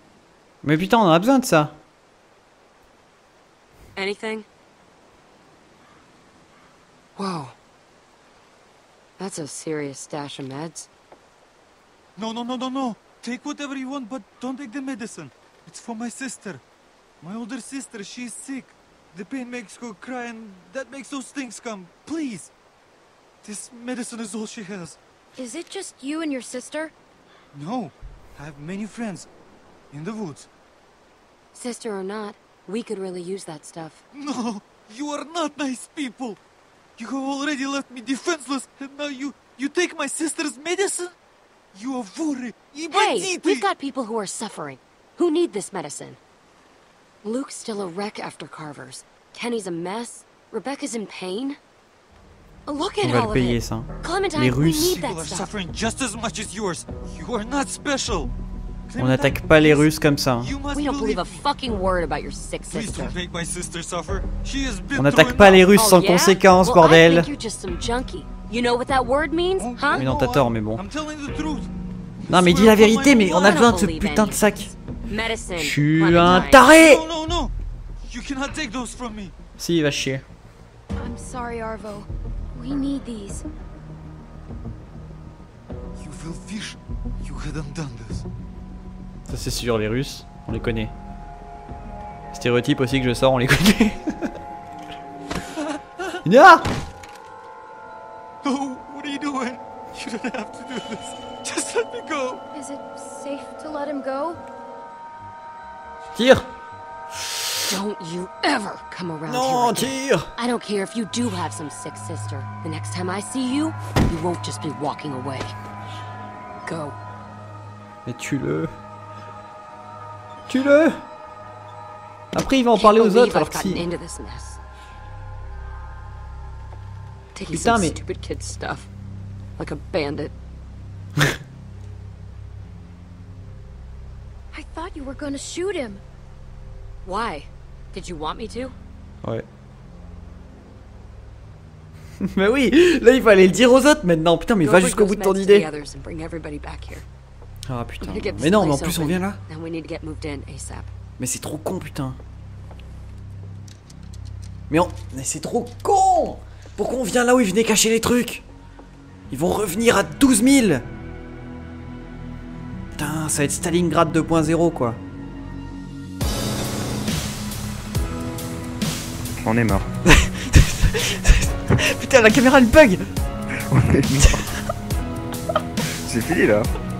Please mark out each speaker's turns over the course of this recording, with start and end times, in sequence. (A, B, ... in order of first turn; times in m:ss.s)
0:00.6-0:01.8 A
0:03.9-0:04.4 B
0:07.2-0:07.5 B
0:09.2-0:10.9 B
0:12.2-0:16.6 C
0:17.2-0:22.5 C
0:23.4-0:25.0 C
0:25.4-0:26.9 D
0:27.5-0:29.3 C
0:29.9-0:30.5 C
0:31.5-0:34.0 B
0:34.1-0:36.4 C
0:37.0-0:41.1 C
0:41.7-0:43.6 C
0:42.9-0:46.2 B
0:47.2-0:51.6 B
0:52.7-0:55.5 B
0:53.0-0:55.0 A
0:54.6-0:58.3 C
0:58.9-1:01.4 C
0:59.0-1:00.5 A
1:00.7-1:03.2 B
1:02.7-1:05.7 C
1:04.9-1:07.3 A
1:05.7-1:10.0 B
1:09.6-1:13.7 C
1:09.9-1:10.8 A
1:12.3-1:14.7 A
1:13.3-1:14.5 B
1:15.1-1:16.7 B
1:15.6-1:17.0 A
1:16.2-1:17.5 C
1:18.0-1:19.3 C
1:19.6-1:20.2 A
1:21.0-1:23.4 D
1:26.0-1:28.2 C
1:29.3-1:30.9 A
1:32.3-1:34.3 A
1:35.6-1:36.1 C
1:36.2-1:36.6 A
1:38.4-1:42.4 C
1:42.5-1:44.4 D
1:46.2-1:46.4 A
1:47.6-1:55.5 B
1:49.3-1:50.3 A
1:56.6-1:57.0 B
1:58.0-1:58.7 A
2:00.5-2:01.0 A
2:02.3-2:03.8 A
2:02.7-2:04.6 B
2:07.3-2:08.9 B
2:07.5-2:08.0 A
2:09.6-2:10.3 B
2:14.5-2:16.0 D
2:17.0-2:18.7 B
2:22.2-2:25.6 A
2:24.6-2:27.0 B
2:27.7-2:29.4 A
2:28.0-2:30.9 B
2:31.2-2:32.2 A
2:34.7-2:38.4 A
2:39.3-2:40.8 A
2:43.0-2:45.0 A
2:49.4-2:49.9 E
2:50.0-2:53.1 A
2:53.6-2:54.5 E
2:54.2-2:54.5 A
2:56.0-2:56.7 E